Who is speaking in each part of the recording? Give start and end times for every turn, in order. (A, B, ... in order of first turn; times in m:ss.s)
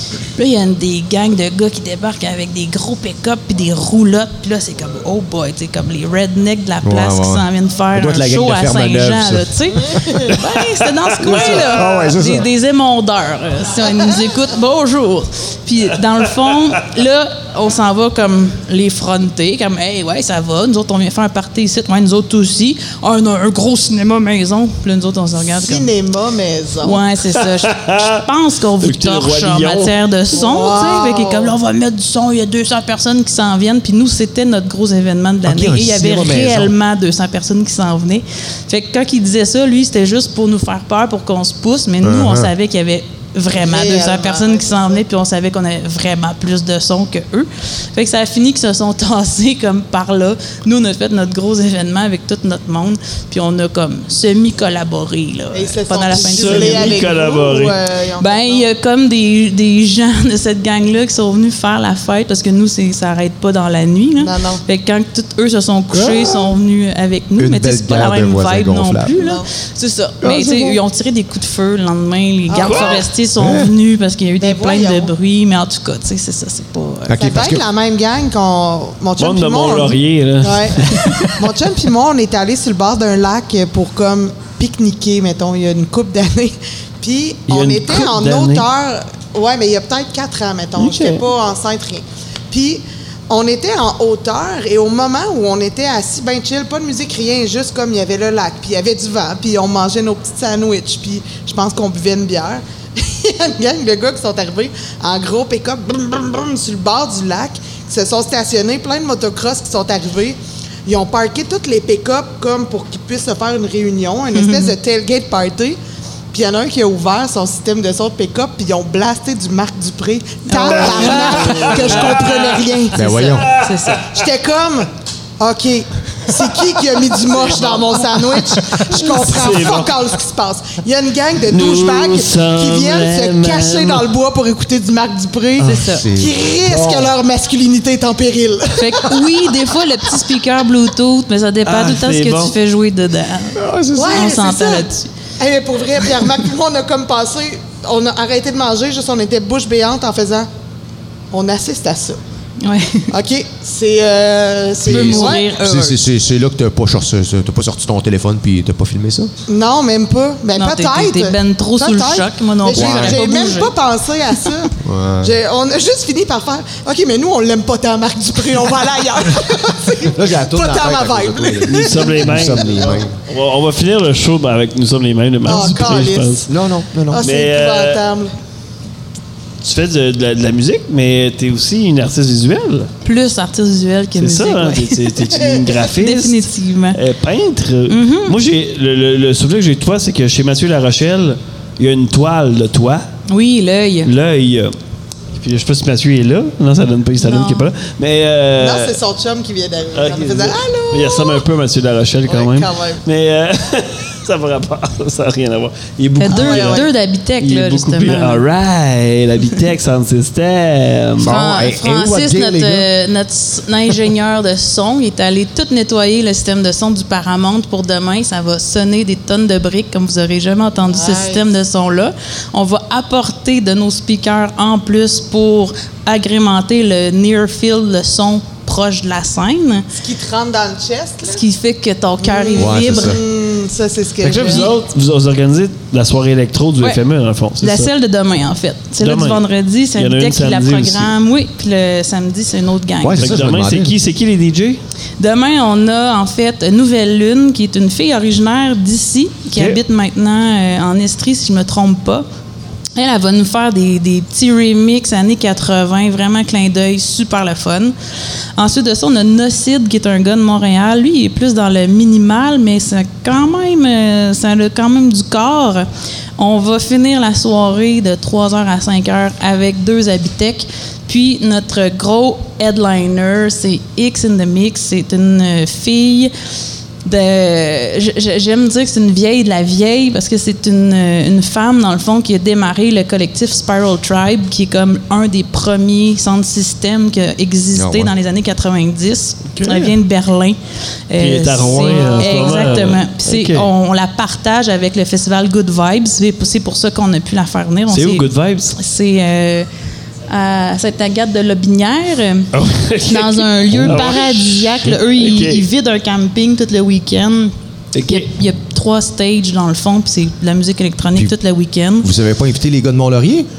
0:00.4-0:25.9 A
0:06.8-0:09.5 B
0:11.2-0:12.5 B
0:25.5-0:27.0 C
0:26.8-0:57.0 A
0:27.6-0:28.2 D
0:28.8-0:29.9 D
0:30.3-0:31.5 C
0:35.4-0:36.7 B
0:42.0-0:42.5 B
0:43.5-0:45.0 C
0:55.5-0:58.7 C
0:56.1-0:57.8 D
0:58.2-1:17.2 A
1:04.2-1:04.6 C
1:07.4-1:09.1 B
1:09.2-1:09.5 C
1:10.2-1:10.8 B
1:12.5-1:13.1 C
1:12.6-1:13.0 D
1:13.4-1:13.7 B
1:14.4-1:15.1 C
1:17.1-1:17.6 B
1:17.2-1:55.8 C
1:19.2-1:21.1 D
1:27.5-1:28.6 D
1:30.8-1:31.2 D
1:54.3-1:54.7 A
1:56.3-2:03.0 C
2:00.5-2:04.1 A
2:00.6-2:02.4 D
2:02.9-2:03.5 B
2:04.0-2:04.9 C
2:05.4-2:19.4 C
2:07.3-2:07.9 D
2:08.8-2:09.9 D
2:11.5-2:14.0 D
2:15.6-2:17.1 B
2:15.6-2:16.1 A
2:18.8-2:23.6 A
2:21.6-2:22.5 D
2:23.5-2:24.3 B
2:23.9-2:24.9 C
2:24.1-2:25.1 A
2:25.4-2:30.5 C
2:31.3-2:32.2 C
2:32.6-2:33.1 A
2:33.1-2:35.5 C
2:34.8-2:36.0 A
2:34.8-2:39.3 B
2:39.5-2:53.0 C
2:40.6-2:43.8 A
2:42.7-2:43.2 B
2:44.8-2:45.3 B
2:50.0-2:53.1 B
2:51.7-2:56.5 D
2:55.4-2:56.5 C
2:56.5-2:57.2 B
2:57.1-2:58.3 C
2:57.2-2:58.0 D
2:59.6-3:02.9 D
3:03.0-3:05.2 A
3:04.2-3:06.4 D
3:05.3-3:05.7 C
3:05.8-3:07.0 A
3:06.9-3:13.1 D
3:07.9-3:08.4 A
3:13.3-3:14.1 A
3:14.0-3:14.7 D
3:15.3-3:19.0 D
3:17.2-3:17.7 A
3:18.6-3:21.4 C
3:20.0-3:26.8 D
3:22.3-3:23.0 C
3:26.2-3:28.4 A
3:26.3-3:26.9 C
3:27.4-3:31.3 D
3:31.2-3:32.9 B
3:31.3-3:49.8 A
3:40.8-3:41.4 C
3:49.9-3:51.4 C
3:51.2-3:53.2 A
3:52.2-3:54.7 C
3:52.6-3:53.2 B
3:54.2-3:57.9 D
3:54.3-3:54.7 A
3:57.6-4:03.3 A
3:59.0-3:59.4 D
4:00.0-4:01.1 D
4:03.0-4:03.9 B
4:03.2-4:04.8 D
4:05.2-4:12.2 A
4:13.0-4:17.9 A
4:18.6-4:36.3 A
4:37.0-4:50.6 A
4:47.7-4:48.1 B
4:49.5-4:49.9 D
4:51.1-4:59.7 A
4:51.2-4:53.7 D
4:57.9-4:58.8 D
5:00.3-5:02.5 A
5:02.5-5:05.6 D
5:03.0-5:07.5 A
5:03.7-5:04.1 B
5:07.9-5:08.3 D
5:08.0-5:12.1 A
5:12.0-5:13.5 B